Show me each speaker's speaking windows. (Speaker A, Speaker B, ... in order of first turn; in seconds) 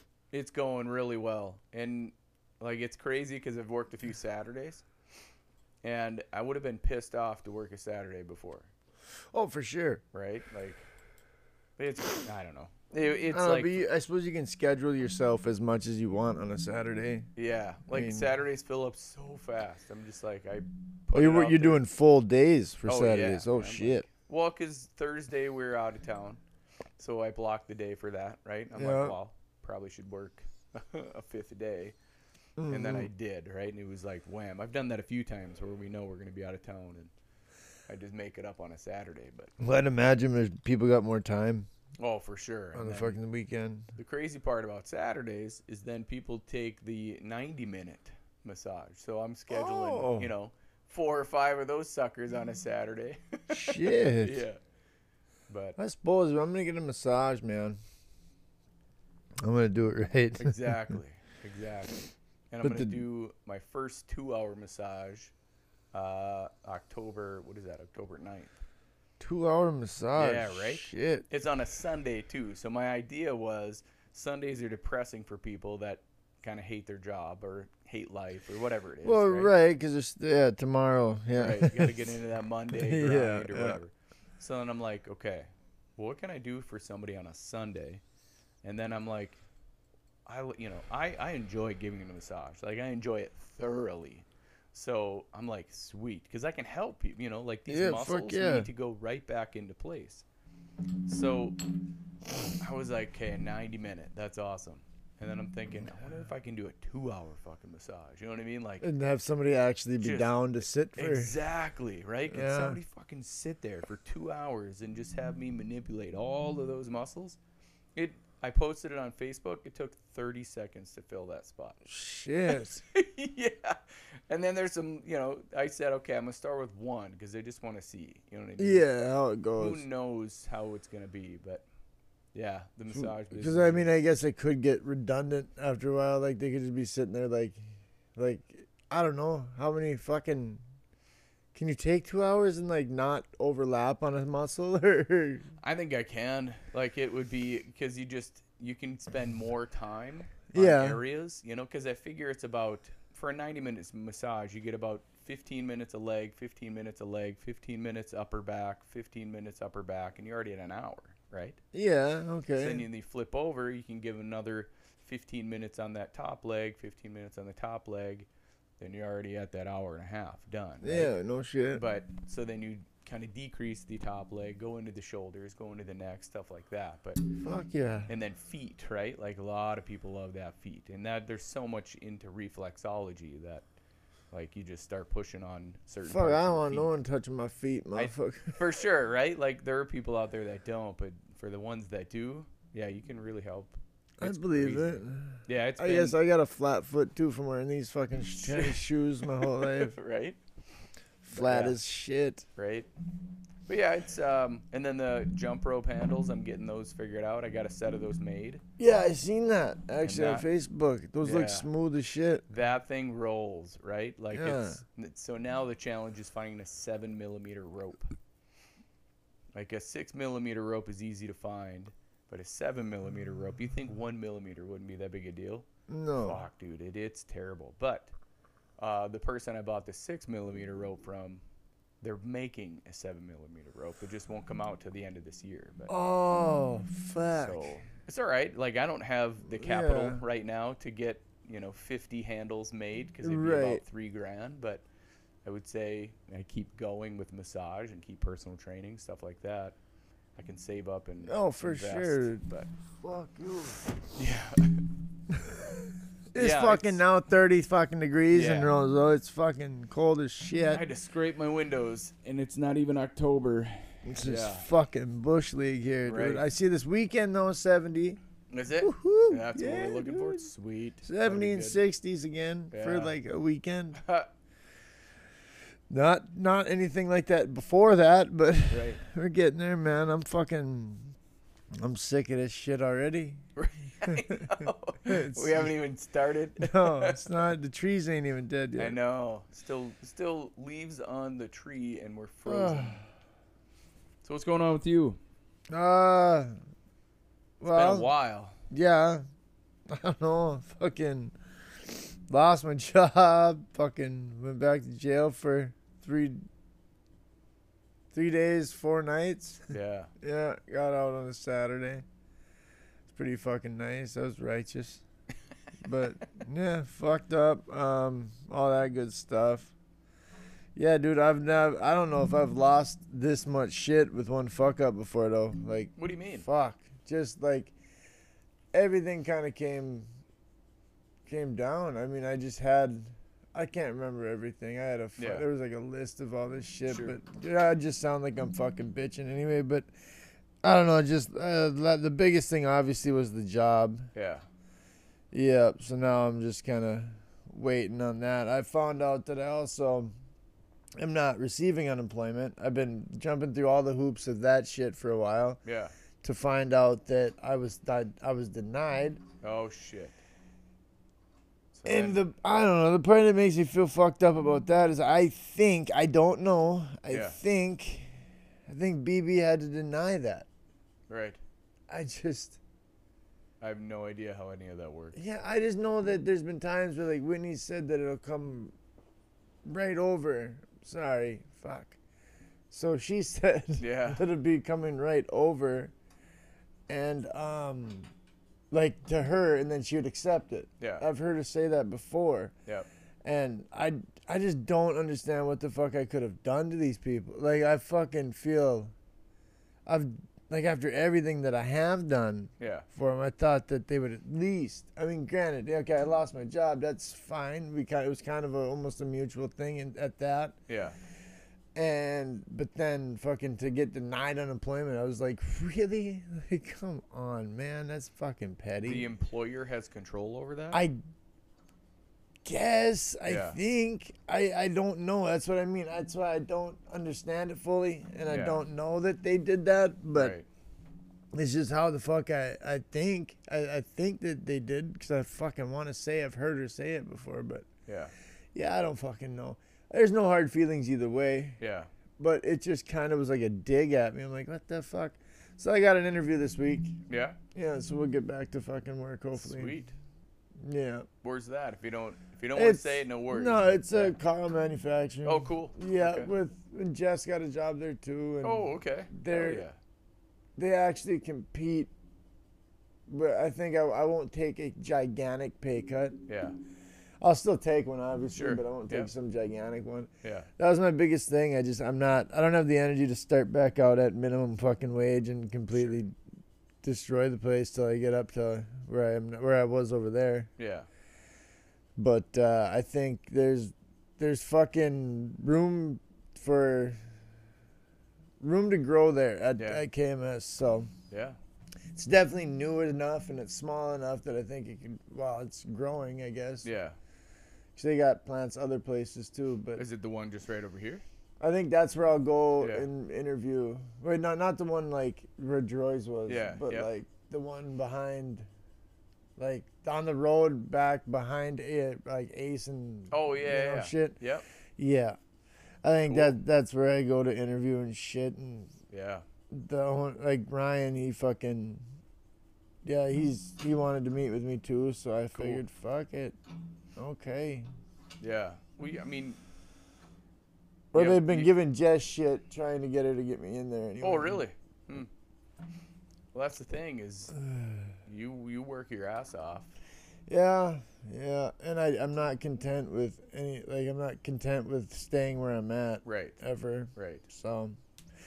Speaker A: 0.3-4.8, 5.8-8.7, 10.1-10.8, 11.8-13.9, 17.4-21.8, 22.9-26.4, 27.0-32.0, 32.7-37.1, 37.9-39.5, 42.0-43.2, 44.0-54.6, 55.5-55.8, 60.4-65.3, 65.9-68.6, 70.2-79.5, 81.3-88.0, 88.6-89.4, 90.3-100.2, 101.1-101.6, 102.5-108.9, 110.0-110.3, 111.0-117.4, 118.0-121.8, 122.5-123.8, 124.3-128.8, 129.6-131.7, 132.3-134.0, 145.6-161.6, 162.6-168.3, 168.8-171.1, 171.7-177.2, 178.1-183.7, 184.3-186.9, 187.9-196.2, 198.4-200.4, 201.3-201.8, 202.6-202.9, 203.7-208.6, 210.0-210.5, 211.2-211.7, 212.5-218.1, 219.5-225.7, 226.2-228.1, 228.8-231.4, 232.0-235.9, 237.3-244.8, 245.4-249.8, 250.3-252.7, 254.2-254.8, 256.4-257.0, 258.3-258.7, 260.7-264.7, 266.0-266.4, 268.5-271.8, 272.7-273.1, 274.0-274.3, 278.7-279.0, 283.6-287.4, 288.8-293.0, 294.2-295.2, 297.7-298.5, 309.7-310.1, 326.0-326.5, 335.2-335.4, 336.9-337.1, 344.1-344.4, 355.6-355.9, 359.4-360.1, 361.7-362.2, 367.1-367.4, 371.1-371.4, 373.6-375.2, 383.8-384.2, 390.8-391.1, 402.6-402.9, 410.7-411.0, 418.8-420.9, 423.2-423.6, 428.3-428.6, 430.1-430.5, 437.9-438.1, 441.6-441.9, 447.1-447.4, 449.4-449.9, 451.2-454.2, 455.2-456.3, 458.4-459.8, 466.3-466.6, 468.3-469.1, 470.2-470.5, 475.7-476.0, 480.6-480.9, 489.6-489.8, 491.1-491.4, 496.6-497.0, 499.8-501.0, 502.6-502.9, 506.3-506.9, 513.1-514.5, 516.1-516.4, 518.9-519.2, 525.4-525.6, 528.2-529.4, 530.9-531.5, 534.0-535.1, 536.3-537.4, 538.0-539.7, 546.0-546.4, 547.0-547.2
Speaker B: 9.3-10.0, 13.3-17.3, 17.9-18.3, 21.1-24.1, 28.7-29.2, 32.6-33.1, 39.6-41.7, 42.8-43.9, 49.5-50.3, 53.5-54.5, 55.8-57.8, 59.4-61.0, 62.6-63.0, 69.2-71.3, 79.0-82.0, 82.7-83.8, 97.7-98.7, 108.8-111.3, 112.3-112.8, 121.8-122.8, 128.6-129.8, 132.9-137.6, 138.2-140.6, 141.5-145.4, 150.5-151.0, 161.7-162.8, 170.8-171.8, 177.4-178.1, 186.0-188.6, 194.2-199.9, 201.2-202.5, 208.8-212.4, 214.3-214.8, 225.9-226.5, 235.9-237.7, 239.4-240.2, 243.2-243.8, 251.3-252.4, 253.0-253.9, 255.3-260.8, 264.0-268.2, 268.8-270.5, 271.0-274.0, 275.9-281.1, 281.8-283.4, 284.1-285.7, 286.6-289.0, 292.5-293.0, 295.7-296.5, 297.6-298.1, 298.7-299.2, 299.9-306.4, 308.1-312.0, 313.1-315.0, 315.8-319.7, 320.8-327.7, 328.7-330.1, 331.2-339.9, 340.6-344.1, 345.3-350.1, 351.0-355.6, 356.2-359.2, 361.9-368.1, 368.7-370.5, 371.9-372.6, 375.1-378.7, 379.6-382.0, 382.7-385.9, 386.9-388.1, 388.7-392.5, 393.2-398.9, 399.9-410.6, 411.8-419.1, 420.7-421.0, 422.4-430.4, 431.3-437.7, 438.5-441.6, 442.2-447.0, 447.5-449.8, 450.6-451.1, 452.6-459.7, 460.6-461.9, 463.1-466.2, 467.2-476.1, 476.8-480.5, 482.0-487.0, 488.4-490.9, 491.9-496.7, 497.8-499.8, 501.4-508.5, 509.4-514.2, 514.8-515.2, 515.8-518.7, 519.5-521.8, 522.8-526.4, 527.0-527.7, 530.9-534.4, 537.4-537.9, 540.3-547.8